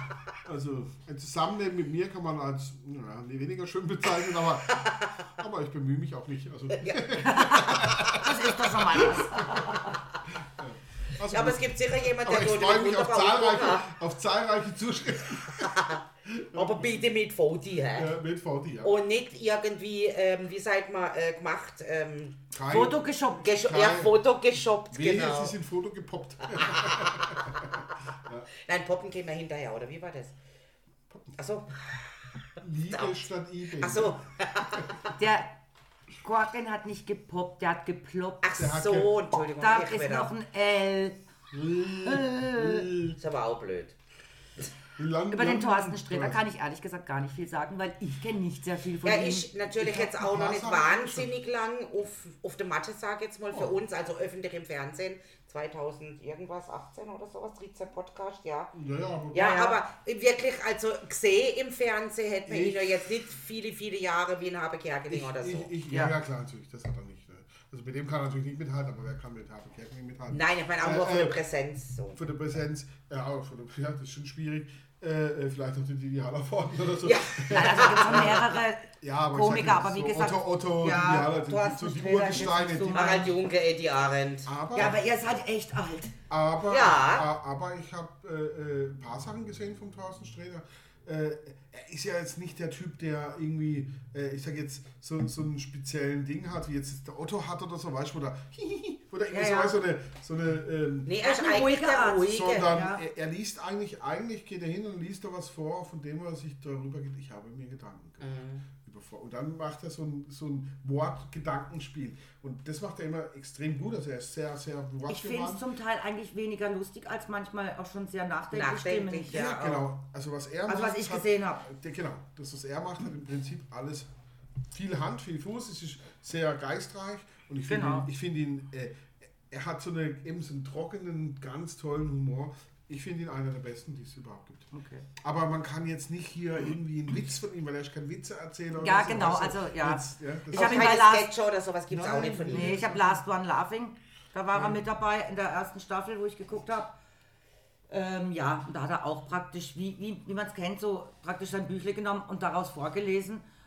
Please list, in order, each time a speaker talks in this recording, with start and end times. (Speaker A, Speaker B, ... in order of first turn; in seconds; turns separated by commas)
Speaker A: 0.4-17.0, Speaker B: 4.7-5.2, Speaker B: 6.8-7.2, Speaker C: 7.2-10.0, Speaker B: 11.3-13.9, Speaker B: 15.6-16.0, Speaker B: 16.5-18.1, Speaker A: 17.9-18.9, Speaker B: 18.8-22.4, Speaker A: 22.5-24.1, Speaker C: 22.7-23.5, Speaker B: 23.4-25.6, Speaker A: 24.9-28.5, Speaker B: 26.5-27.5, Speaker B: 28.5-30.4, Speaker B: 31.4-32.0, Speaker A: 32.6-34.2, Speaker B: 32.9-34.9, Speaker A: 34.8-35.1, Speaker C: 35.2-35.5, Speaker C: 36.2-38.5, Speaker B: 38.4-40.3, Speaker A: 38.6-39.2, Speaker C: 39.5-41.2, Speaker A: 41.5-43.2, Speaker C: 42.0-42.9, Speaker B: 43.1-44.0, Speaker A: 45.0-46.5, Speaker C: 45.3-49.5, Speaker B: 49.0-58.7, Speaker A: 49.8-51.3, Speaker A: 58.7-59.6, Speaker B: 59.3-65.7, Speaker C: 59.4-59.8, Speaker A: 62.5-62.9, Speaker A: 65.1-71.4, Speaker B: 70.3-72.2, Speaker A: 72.1-83.3, Speaker B: 77.0-78.5, Speaker C: 77.5-83.3, Speaker B: 80.8-82.4, Speaker B: 82.9-84.5, Speaker A: 84.5-85.0, Speaker C: 84.7-86.2, Speaker A: 86.3-101.2, Speaker B: 86.7-87.3, Speaker C: 99.3-99.8, Speaker B: 101.1-102.7, Speaker C: 101.2-103.0, Speaker A: 102.2-115.7, Speaker B: 108.2-108.7, Speaker C: 115.1-119.6, Speaker B: 118.5-119.8, Speaker A: 119.3-124.1, Speaker C: 120.7-121.7, Speaker A: 124.7-141.0, Speaker C: 127.7-128.1, Speaker C: 134.7-135.1, Speaker C: 138.8-141.3, Speaker B: 140.5-142.9, Speaker A: 141.9-143.2, Speaker C: 142.5-147.0, Speaker A: 144.5-144.8, Speaker C: 147.9-153.4